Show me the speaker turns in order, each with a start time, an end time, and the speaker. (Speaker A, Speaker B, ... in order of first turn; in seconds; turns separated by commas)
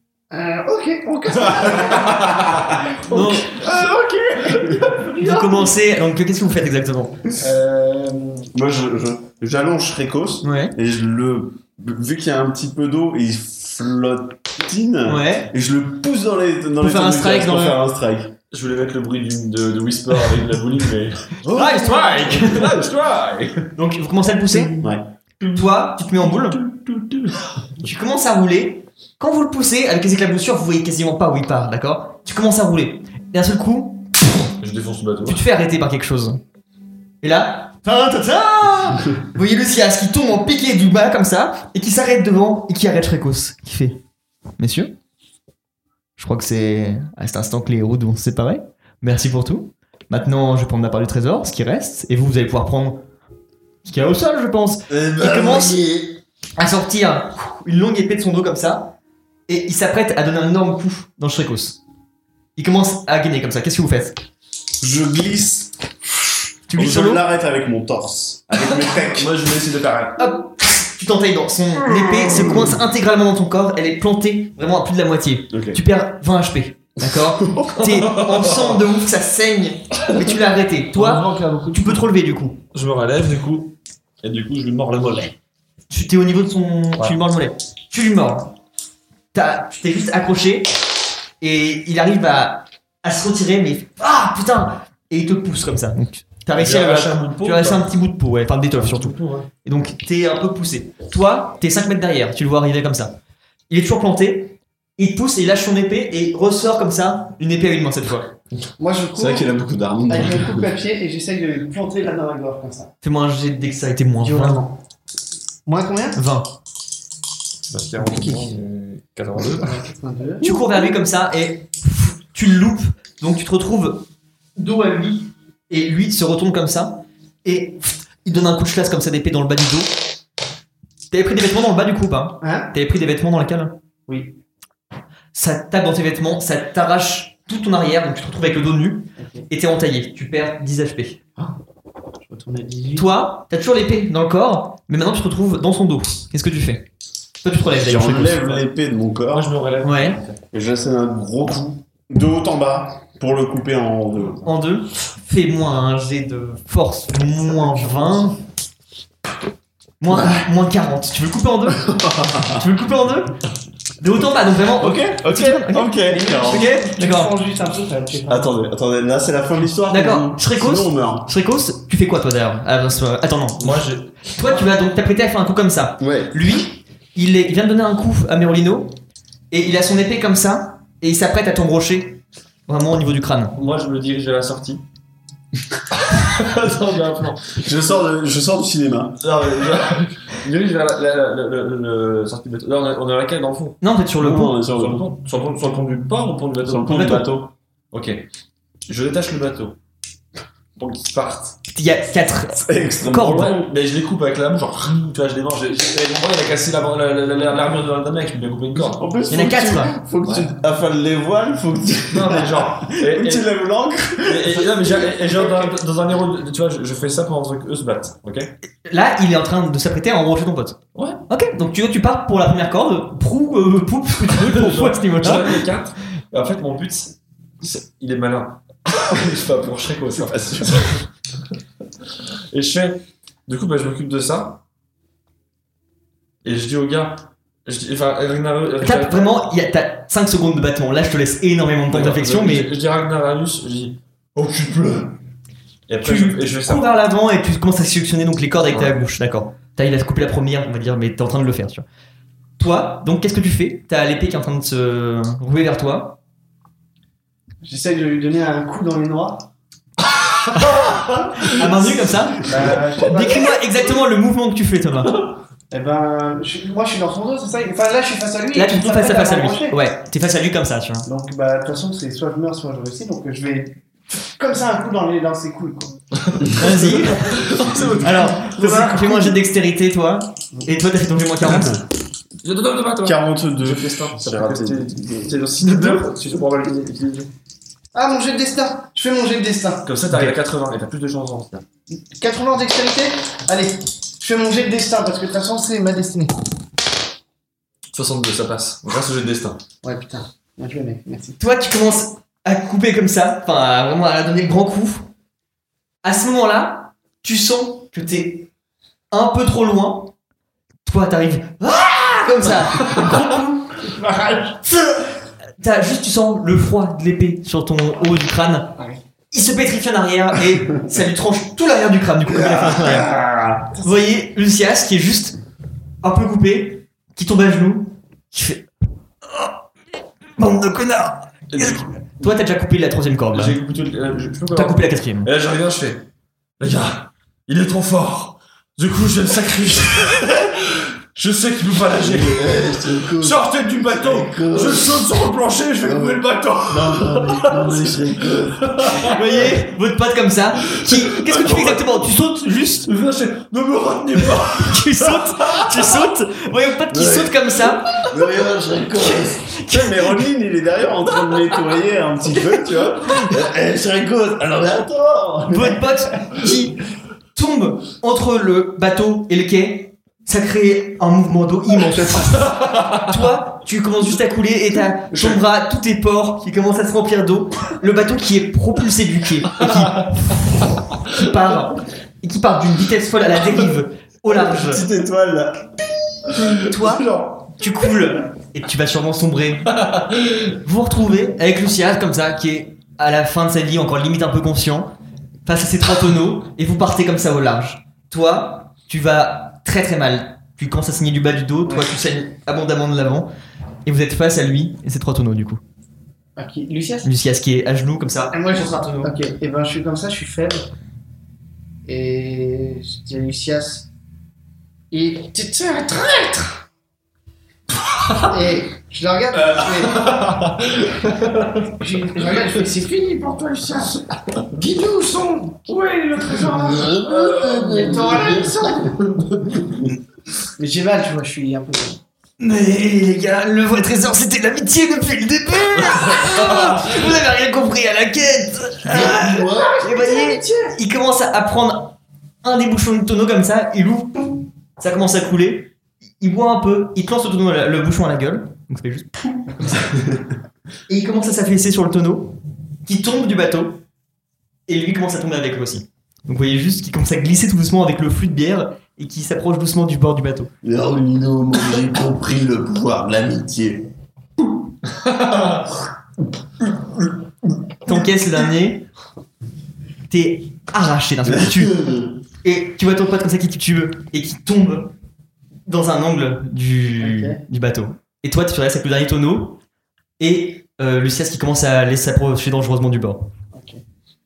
Speaker A: 0.3-3.8, Speaker B: 2.1-2.5, Speaker C: 3.1-3.6, Speaker B: 3.6-4.9, Speaker A: 4.5-5.7, Speaker C: 5.2-7.2, Speaker D: 7.4-8.5, Speaker E: 8.5-18.3, Speaker C: 10.4-10.7, Speaker C: 15.1-15.5, Speaker C: 16.8-17.8, Speaker B: 18.5-23.7, Speaker C: 21.4-22.7, Speaker C: 23.7-24.7, Speaker E: 24.8-25.0, Speaker C: 25.5-26.6, Speaker B: 26.2-27.5, Speaker C: 27.8-34.1, Speaker B: 34.6-35.4, Speaker C: 35.2-36.4, Speaker C: 37.2-44.0, Speaker C: 44.6-44.9, Speaker C: 46.2-53.0, Speaker C: 53.8-55.8, Speaker F: 54.9-56.2, Speaker C: 56.6-58.9, Speaker C: 59.5-61.8, Speaker C: 62.5-64.2, Speaker E: 64.8-66.1, Speaker C: 66.7-67.2, Speaker E: 66.7-69.3, Speaker B: 68.6-70.2, Speaker C: 70.2-82.6, Speaker E: 72.2-72.6, Speaker E: 75.5-75.8, Speaker E: 77.2-77.7, Speaker B: 77.8-78.8, Speaker B: 80.9-82.1, Speaker B: 82.7-85.3, Speaker C: 85.9-88.5, Speaker C: 89.3-90.7, Speaker C: 91.4-103.2, Speaker B: 96.5-97.9, Speaker B: 98.7-99.5, Speaker C: 103.7-108.3, Speaker D: 108.8-109.5, Speaker E: 109.1-110.7, Speaker D: 110.1-112.9, Speaker C: 113.0-114.6, Speaker D: 114.2-114.8, Speaker D: 115.7-116.2, Speaker C: 116.1-116.5, Speaker B: 117.7-119.8, Speaker D: 119.6-120.5, Speaker C: 120.4-124.0, Speaker C: 124.5-129.9, Speaker C: 131.1-133.7, Speaker D: 132.4-132.7, Speaker D: 134.1-134.3, Speaker C: 135.3-141.2, Speaker D: 139.2-139.4, Speaker D: 142.2-143.1, Speaker C: 142.9-146.9, Speaker C: 147.4-148.5, Speaker E: 147.7-149.6, Speaker B: 148.2-148.6, Speaker B: 149.3-150.4, Speaker C: 149.8-150.2, Speaker E: 150.5-154.5, Speaker C: 154.4-158.4, Speaker D: 157.6-158.0, Speaker C: 160.0-163.4, Speaker C: 164.0-167.3, Speaker E: 164.8-166.7, Speaker B: 165.3-165.6, Speaker D: 166.1-168.7, Speaker E: 168.3-171.3, Speaker C: 169.9-179.0, Speaker B: 173.6-174.6, Speaker E: 176.0-176.4, Speaker C: 179.5-183.6, Speaker B: 183.5-184.8, Speaker B: 185.9-187.7, Speaker E: 187.6-189.2, Speaker B: 189.2-193.8, Speaker C: 193.8-194.6, Speaker E: 194.2-195.0, Speaker B: 194.6-196.9, Speaker E: 196.6-197.5, Speaker C: 196.9-197.3, Speaker B: 197.9-198.2, Speaker B: 198.9-199.8, Speaker B: 200.8-201.6, Speaker C: 201.7-203.6, Speaker E: 202.6-203.7, Speaker B: 203.2-209.0, Speaker E: 208.8-215.0, Speaker C: 209.3-209.9, Speaker B: 210.2-210.5, Speaker B: 212.1-213.5, Speaker B: 214.2-218.5, Speaker C: 218.8-225.6, Speaker B: 220.9-221.2, Speaker B: 224.3-231.0, Speaker B: 232.5-234.6, Speaker B: 236.4-239.3, Speaker C: 238.8-242.7, Speaker B: 241.9-245.2, Speaker B: 245.9-246.9, Speaker C: 246.0-251.8, Speaker B: 248.7-248.9, Speaker C: 252.6-256.2, Speaker D: 257.6-259.5, Speaker B: 260.6-261.5, Speaker C: 261.3-265.2, Speaker D: 262.4-263.6, Speaker D: 265.7-269.8, Speaker C: 268.5-271.1, Speaker D: 271.1-275.9, Speaker B: 276.3-279.3, Speaker C: 276.5-281.8, Speaker B: 282.4-287.3, Speaker E: 283.0-285.3, Speaker C: 285.6-286.1, Speaker D: 287.9-289.9, Speaker B: 289.8-291.6, Speaker D: 292.0-296.3, Speaker B: 297.9-299.6, Speaker D: 299.8-301.4, Speaker C: 301.4-305.1, Speaker C: 306.0-308.5, Speaker C: 309.1-310.1, Speaker C: 310.9-313.9, Speaker D: 314.0-314.5, Speaker C: 314.7-315.0, Speaker C: 315.6-318.8, Speaker C: 319.3-323.1, Speaker F: 322.7-323.4, Speaker C: 323.8-325.4, Speaker C: 326.0-328.7, Speaker C: 330.4-333.6, Speaker B: 331.5-332.0, Speaker B: 333.3-336.1, Speaker C: 334.5-335.3, Speaker B: 336.6-349.2, Speaker F: 342.0-343.4, Speaker F: 343.9-345.1, Speaker F: 345.8-349.1, Speaker C: 349.0-352.9, Speaker B: 350.7-352.0, Speaker B: 352.9-356.1, Speaker C: 354.5-357.9, Speaker F: 356.9-357.4, Speaker F: 358.0-359.5, Speaker C: 359.0-360.2, Speaker E: 359.7-363.1, Speaker C: 362.5-363.3, Speaker F: 363.2-365.8, Speaker C: 365.5-366.8, Speaker C: 367.3-384.9, Speaker B: 379.6-380.1, Speaker E: 384.3-386.3, Speaker B: 386.4-387.6, Speaker C: 386.6-389.7, Speaker B: 389.7-390.5, Speaker C: 390.6-394.9, Speaker C: 395.4-403.3, Speaker D: 401.6-401.9, Speaker C: 403.8-405.6, Speaker D: 406.4-407.1, Speaker C: 407.0-409.1, Speaker D: 408.4-410.6, Speaker D: 411.9-413.9, Speaker A: 414.9-416.6, Speaker D: 418.1-420.4, Speaker B: 419.5-421.5, Speaker D: 421.7-422.8, Speaker A: 422.3-424.0, Speaker A: 424.5-428.8, Speaker F: 426.4-429.8, Speaker D: 427.1-428.5, Speaker D: 430.6-432.0, Speaker C: 432.4-449.9, Speaker F: 438.8-439.8, Speaker A: 439.2-440.7, Speaker C: 450.9-453.8, Speaker C: 454.7-460.5, Speaker F: 460.6-463.9, Speaker B: 464.9-465.6, Speaker C: 467.8-468.9, Speaker C: 470.1-471.8, Speaker F: 471.2-472.1, Speaker C: 472.4-474.9, Speaker C: 475.7-479.6, Speaker D: 477.0-477.4, Speaker C: 480.2-483.3, Speaker D: 483.5-483.8